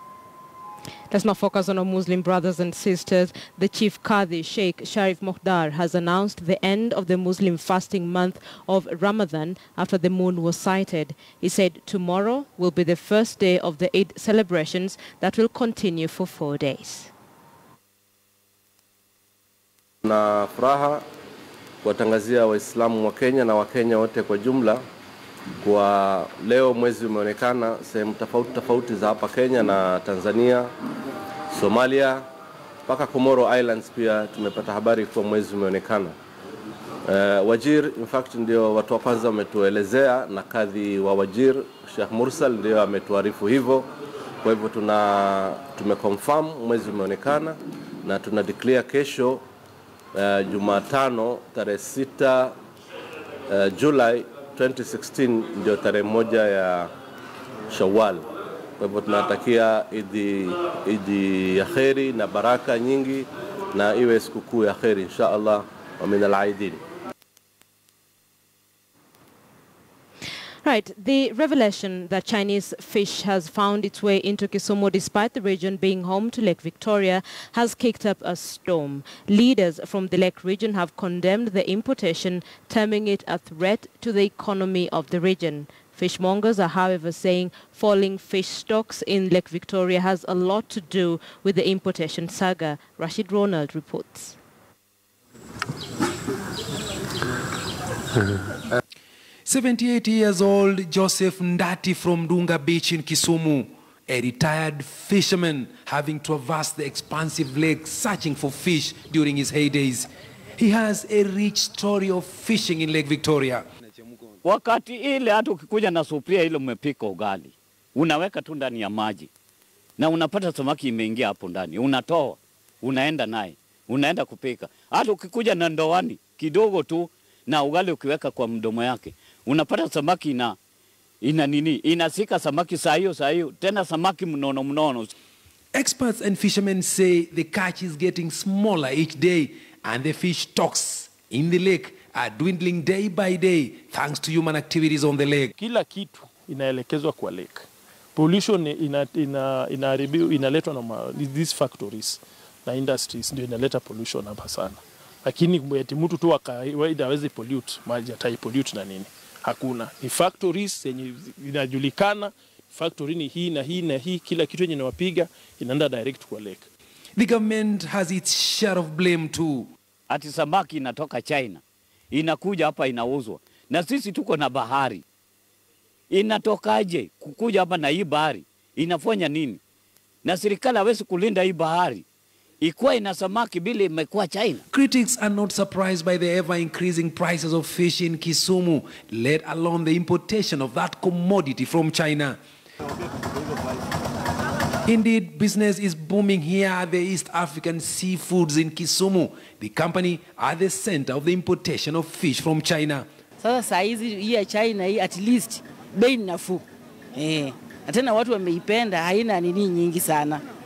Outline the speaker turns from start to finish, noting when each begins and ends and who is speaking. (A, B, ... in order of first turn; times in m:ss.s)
0:01.1-0:17.1 A
0:20.0-0:21.0 B
0:21.8-0:24.8 B
0:25.6-0:30.7 B
0:31.5-0:32.2 B
0:32.9-0:36.1 B
0:37.0-0:43.9 B
0:44.4-0:49.4 B
0:50.1-0:52.6 B
0:53.5-0:56.9 B
0:57.7-0:58.2 B
0:58.8-1:06.8 B
1:10.6-1:34.4 A
1:39.4-1:53.6 C
1:54.4-1:59.3 D
2:00.0-2:10.6 D
2:11.2-2:15.1 D
2:15.7-2:25.5 C
2:25.6-2:46.7 E
2:47.2-2:49.7 C
2:50.1-2:51.6 D
2:52.1-2:55.0 D
2:56.1-2:59.6 D
3:00.2-3:02.0 D
3:02.6-3:04.6 D
3:04.7-3:12.4 C
3:14.8-3:23.1 C
3:23.4-3:26.6 F
3:27.2-3:30.4 F